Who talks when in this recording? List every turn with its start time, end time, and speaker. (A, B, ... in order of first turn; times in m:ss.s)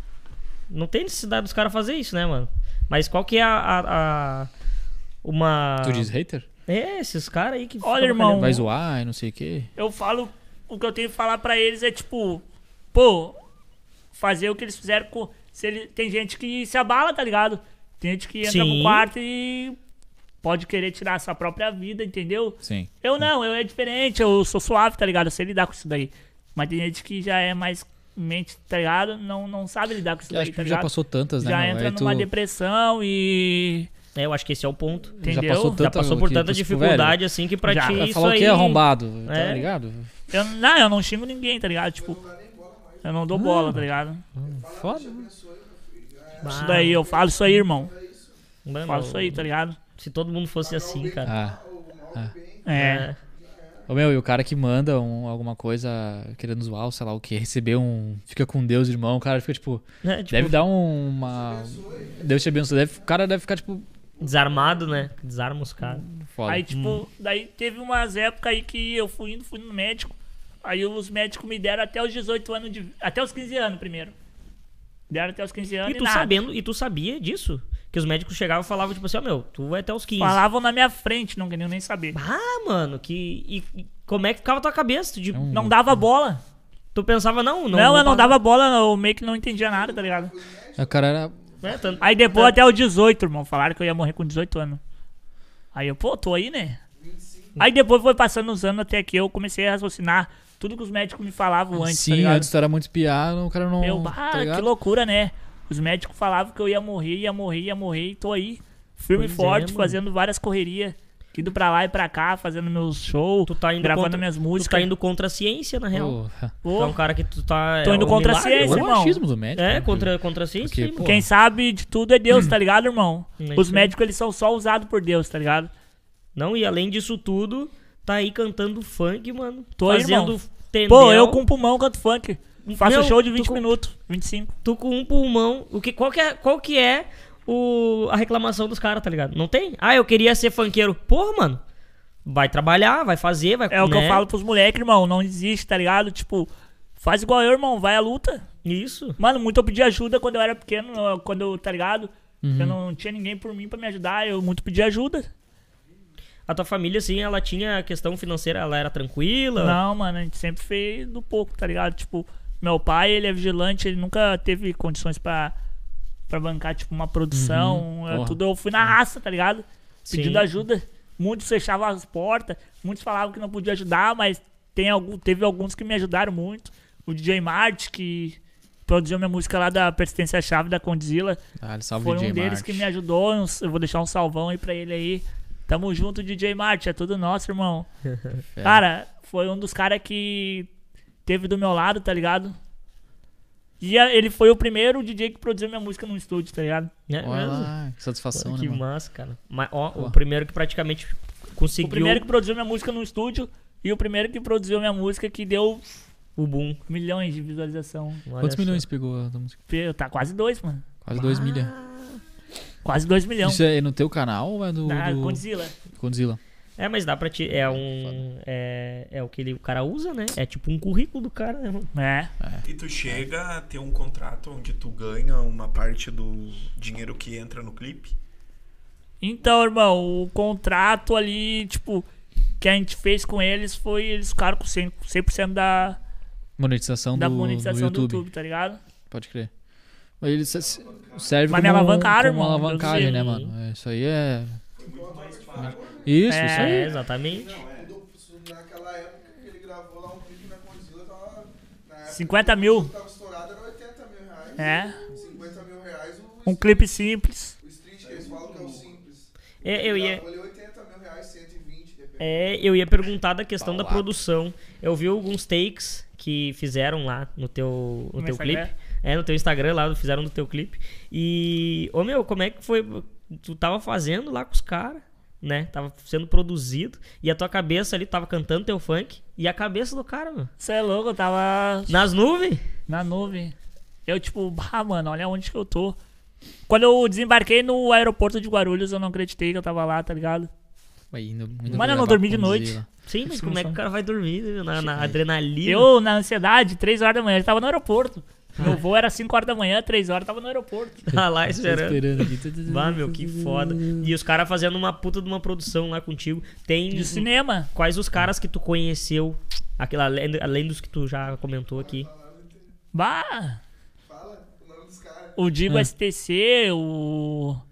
0:00.7-0:04.5 A
0:05.2-0:06.1 A
0:05.8-0:06.4 B
0:06.7-0:08.5 A
0:07.8-0:08.6 C
0:08.3-0:09.7 B
0:09.8-0:12.4 C
0:12.9-0:13.4 C
0:14.1-0:19.8 C
0:18.4-0:19.1 A
0:20.4-0:30.9 C
0:22.6-0:23.2 B
0:30.3-0:32.3 B
0:31.4-0:33.9 C
0:34.1-0:35.2 A
0:35.2-0:35.8 C
0:35.2-0:37.2 B
0:35.7-0:39.6 A
0:37.6-0:38.0 C
0:37.8-0:40.1 B
0:40.3-0:42.2 C
0:41.9-0:43.5 D
0:43.0-0:44.2 C
0:43.3-0:43.8 B
0:44.4-0:45.3 B
0:44.5-0:48.4 D
0:46.4-0:47.0 A
0:46.4-0:47.9 C
0:48.6-0:51.3 A
0:48.8-0:49.8 C
0:50.6-0:53.9 D
0:51.2-0:51.6 B
0:52.6-0:53.1 C
0:52.7-0:53.2 A
0:53.9-1:03.9 B
1:00.0-1:00.6 A
1:01.1-1:03.1 D
1:04.2-1:04.9 D
1:04.2-1:06.0 A
1:05.8-1:06.7 B
1:06.5-1:14.1 C
1:06.7-1:07.0 A
1:15.1-1:16.4 C
1:15.8-1:20.4 A
1:20.2-1:22.1 C
1:22.1-1:25.4 A
1:25.3-1:26.0 B
1:25.5-1:26.4 C
1:26.9-1:28.4 A
1:27.7-1:30.3 C
1:29.6-1:32.1 D
1:30.8-1:31.3 B
1:31.6-1:32.6 A
1:32.0-1:34.8 C
1:35.7-1:36.8 C
1:37.0-1:37.6 D
1:37.6-1:42.5 C
1:41.7-1:44.7 B
1:43.8-1:54.9 C
1:49.1-1:50.0 A
1:53.5-1:56.2 A
1:55.9-1:56.5 B
1:56.6-1:57.0 C
1:56.7-1:58.8 A
1:57.8-1:59.2 C
1:58.4-2:01.3 B
1:59.6-2:01.1 A
2:01.0-2:05.7 C
2:03.4-2:03.9 A
2:06.3-2:11.4 A
2:09.8-2:10.4 C
2:10.9-2:14.5 C
2:12.6-2:13.6 A
2:14.6-2:21.6 A
2:22.2-2:24.2 A
2:23.7-2:28.4 C
2:28.6-2:29.2 A
2:29.2-2:35.3 C
2:32.4-2:32.8 B
2:36.5-2:39.8 A
2:39.6-2:45.5 C
2:46.3-3:01.4 C
2:47.3-2:48.9 B
2:50.1-2:50.4 A
3:01.6-3:02.9 B
3:02.0-3:07.9 C
3:08.1-3:08.4 A
3:08.5-3:08.8 B
3:08.6-3:10.7 C
3:11.2-3:12.6 C
3:13.8-3:16.9 C
3:17.1-3:17.7 A
3:17.2-3:18.8 B
3:18.3-3:22.2 A
3:21.8-3:26.0 C
3:26.4-3:26.8 A
3:26.9-3:28.2 C
3:28.2-3:28.8 A
3:28.4-3:29.6 B
3:29.7-3:30.8 C
3:31.0-3:31.7 B
3:31.1-3:32.2 A
3:32.8-3:33.6 C
3:33.4-3:36.4 B
3:34.8-3:35.7 C
3:36.8-3:41.9 A
3:37.5-3:38.2 B
3:41.9-3:42.3 C
3:42.4-3:43.2 B
3:42.6-3:48.1 E
3:49.2-3:52.0 C
3:52.6-3:56.0 C
3:56.6-3:58.3 B
3:57.1-3:58.8 C
3:59.1-3:59.5 B
4:00.2-4:04.6 B
4:00.4-4:01.6 E
4:01.5-4:03.2 C
4:02.8-4:03.5 A
4:04.8-4:07.9 E
4:04.8-4:06.2 D
4:05.6-4:06.9 B
4:06.3-4:06.8 C
4:06.5-4:07.6 A
4:07.7-4:16.9 D
4:12.1-4:12.9 C
4:14.6-4:15.0 C
4:16.4-4:17.5 C
4:17.6-4:22.5 D
4:18.0-4:18.9 E
4:19.6-4:20.2 A
4:22.2-4:40.5 A
4:23.6-4:24.1 B
4:28.2-4:28.7 C
4:40.6-4:41.9 C
4:41.9-4:42.6 A
4:42.9-4:43.5 C
4:44.1-4:46.0 C
4:46.7-4:50.5 C
4:51.1-4:52.8 B
4:51.7-4:53.8 C
4:53.0-4:55.9 A
4:54.8-4:55.2 B
4:55.6-5:01.1 C
5:01.1-5:12.1 A
5:01.1-5:04.1 B
5:06.9-5:07.7 C
5:11.7-5:12.7 D
5:12.9-5:13.6 C
5:14.0-5:15.4 D
5:15.4-5:17.6 C